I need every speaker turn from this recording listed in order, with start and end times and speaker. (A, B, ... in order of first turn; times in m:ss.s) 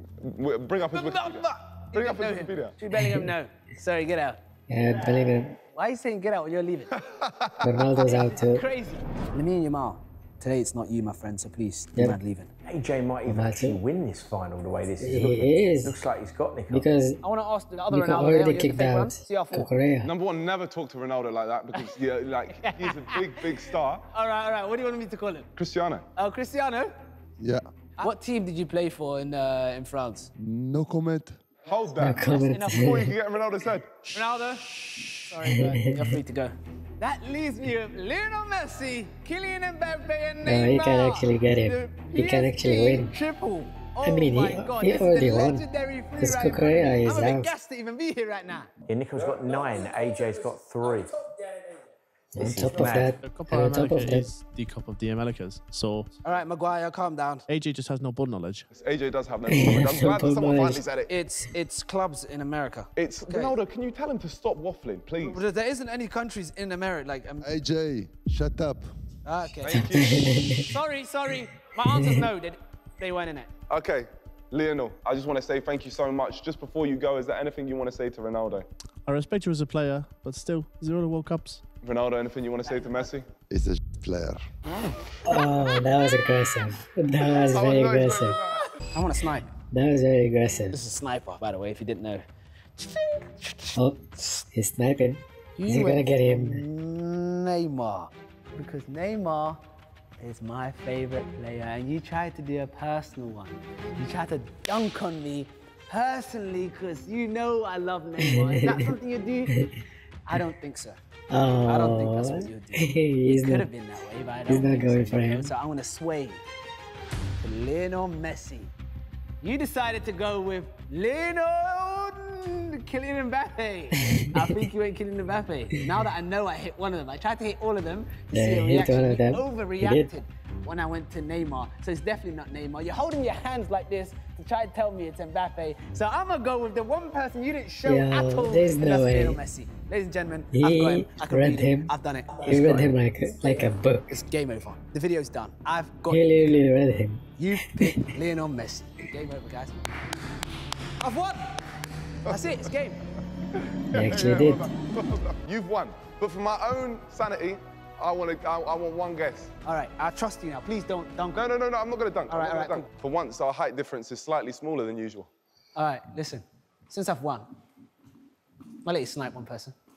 0:00.2-0:02.8 A
0:00.9-0:04.4 B
0:03.0-0:03.3 C
0:04.7-0:05.6 C
0:05.7-0:06.9 B
0:06.9-0:07.9 A
0:07.6-0:08.6 C
0:08.0-0:12.5 B
0:12.6-0:16.9 D
0:13.3-0:13.8 C
0:15.0-0:16.0 C
0:16.7-0:17.2 C
0:17.2-0:19.7 B
0:17.9-0:20.1 C
0:20.0-0:24.1 A
0:22.6-0:25.5 B
0:25.6-0:26.1 A
0:26.2-0:26.9 B
0:28.0-0:30.3 B
0:30.4-0:31.4 E
0:31.7-0:34.1 A
0:32.0-0:33.1 C
0:32.2-0:33.1 B
0:34.1-0:48.7 B
0:40.5-0:43.1 C
0:44.0-0:45.6 C
0:46.2-0:47.5 C
0:48.9-0:51.2 D
0:52.3-0:54.3 C
0:52.4-0:53.2 D
0:52.8-0:56.1 F
0:56.2-0:57.4 B
0:57.5-0:58.7 F
0:58.7-1:01.1 A
0:59.5-1:00.9 C
1:01.1-1:03.6 B
1:03.0-1:05.4 A
1:05.2-1:07.5 B
1:07.4-1:08.9 E
1:09.2-1:13.5 B
1:09.6-1:10.4 A
1:10.0-1:10.6 C
1:13.7-1:18.7 A
1:19.1-1:21.6 F
1:21.8-1:23.3 A
1:22.6-1:23.2 B
1:23.5-1:24.4 E
1:25.3-1:28.4 C
1:27.2-1:28.7 A
1:28.9-1:29.5 B
1:29.7-1:30.8 C
1:30.7-1:32.2 B
1:32.8-1:33.8 B
1:33.8-1:36.6 C
1:35.6-1:39.6 B
1:40.2-1:49.7 B
1:48.2-1:48.9 C
1:50.3-1:51.0 B
1:51.3-1:53.7 C
1:51.7-1:56.4 B
1:54.5-1:55.5 C
1:57.4-1:58.7 B
1:59.4-2:26.3 B
2:04.0-2:04.5 C
2:08.3-2:10.1 C
2:17.8-2:19.4 C
2:20.5-2:24.2 C
2:26.1-2:28.1 C
2:27.4-2:29.8 B
2:31.0-2:31.5 B
2:32.3-2:33.0 B
2:33.6-2:39.5 A
2:33.9-2:34.7 C
2:39.6-2:41.5 B
2:41.4-2:45.3 A
2:42.3-2:42.9 B
2:45.8-2:47.5 B
2:48.8-2:49.8 B